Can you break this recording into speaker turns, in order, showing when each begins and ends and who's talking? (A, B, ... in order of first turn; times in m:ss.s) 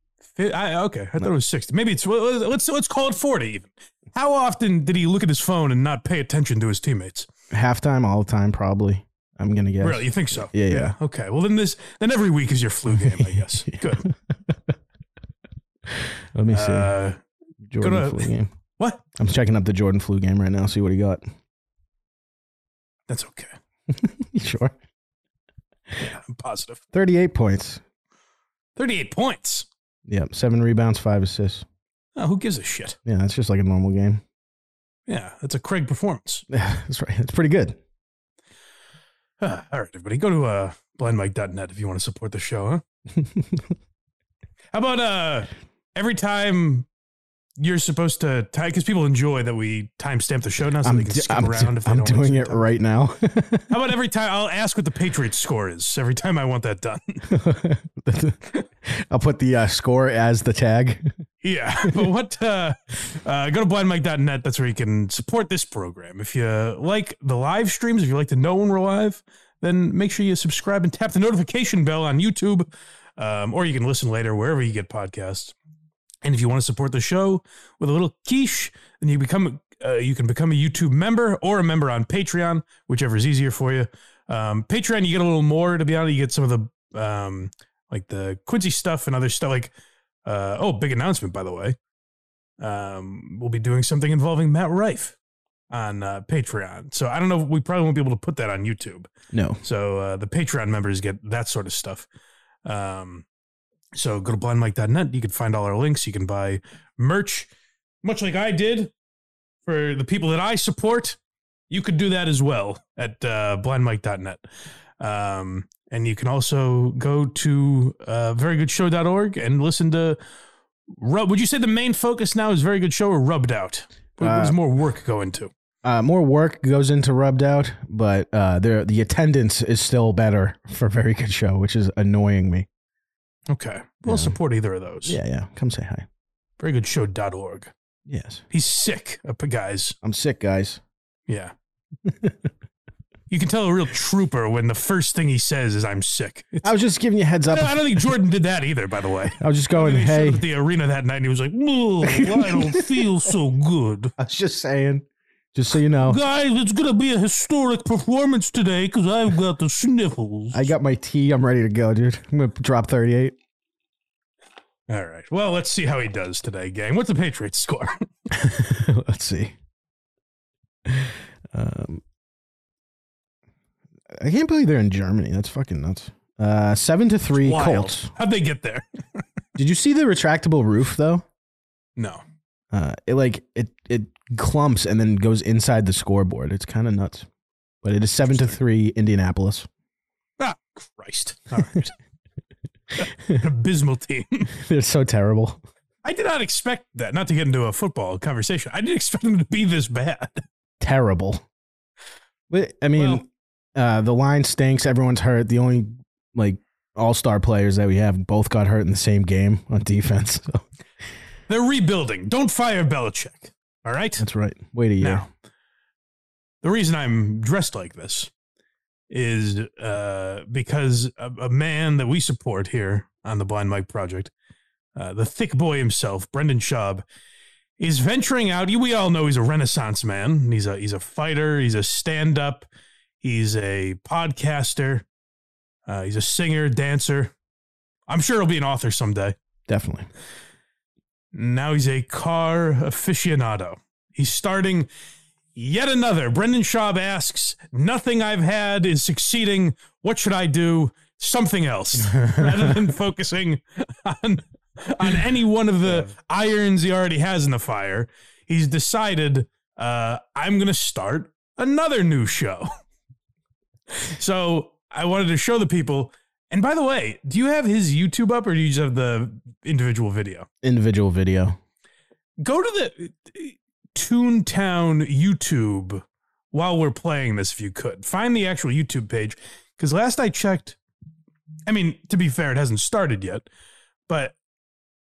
0:00.3-0:07.3 A
0:07.5-0:10.9 B
0:09.8-0:14.0 A
0:12.9-0:14.6 B
0:16.3-0:17.0 B
0:16.5-0:17.2 A
0:17.7-0:18.5 B
0:17.8-0:19.0 A
0:19.2-0:21.2 B
0:23.1-0:23.5 A
0:23.9-0:24.7 B
0:26.0-0:26.8 A
0:26.9-0:27.8 B
0:28.8-0:29.7 A
0:30.1-0:31.6 B
0:32.2-0:33.0 A
0:33.0-0:34.2 B
0:35.1-0:36.4 A
0:36.5-0:37.8 B
0:39.4-0:42.8 A
0:43.2-0:43.7 B
0:44.7-0:46.8 A
0:47.6-0:52.6 A
0:50.8-0:53.7 B
0:53.7-0:57.2 A
0:57.3-1:01.1 B
1:01.4-1:15.5 A
1:16.2-1:29.7 A
1:30.2-1:31.8 A
1:32.6-1:35.2 A
1:35.7-1:39.1 A
1:39.3-1:39.6 B
1:39.6-1:42.0 A
1:42.6-1:43.2 A
1:43.9-1:47.5 A
1:48.0-1:48.9 A
1:49.6-1:51.2 A
1:51.7-1:54.4 A
1:55.0-2:00.2 A
2:00.9-2:05.5 A
2:04.2-2:04.6 B
2:05.8-2:12.6 B
2:13.5-2:15.2 A
2:14.0-2:14.4 B
2:15.0-2:16.0 B
2:16.6-2:17.7 A
2:18.1-2:18.4 B
2:18.5-2:20.0 A
2:20.0-2:20.8 B
2:21.3-2:21.5 A
2:22.1-2:22.3 B
2:23.3-2:26.6 A
2:26.6-2:28.0 B
2:27.5-2:34.1 A
2:29.4-2:30.4 B
2:32.0-2:32.9 B
2:34.2-2:36.2 B
2:36.0-2:40.7 A
2:40.5-2:43.4 B
2:44.9-2:48.1 A
2:48.3-2:49.5 B
2:50.8-2:52.0 B
2:54.1-2:58.1 B
2:57.4-2:59.2 A
2:59.6-3:01.2 B
3:02.0-3:02.2 A
3:02.7-3:07.3 B
3:07.8-3:09.7 B
3:10.4-3:11.9 A
3:13.3-3:14.5 A
3:14.6-3:15.6 B
3:16.0-3:20.4 A
3:20.8-3:21.4 B
3:22.5-3:30.6 B
3:23.0-3:23.2 A
3:31.5-3:34.2 A
3:34.2-3:35.3 B
3:35.0-3:35.2 A
3:36.6-3:38.3 A
3:39.1-3:44.3 A
3:44.9-3:47.0 A
3:47.8-3:52.7 A
3:53.2-3:55.0 A
3:55.8-3:57.3 A
3:58.1-3:59.3 A
3:59.7-4:00.1 B
4:01.3-4:04.9 A
4:05.6-4:22.7 A
4:12.1-4:12.7 B
4:24.0-4:30.5 A
4:30.6-4:31.6 B
4:32.4-4:40.8 A
4:41.7-4:43.5 A
4:44.1-4:44.3 A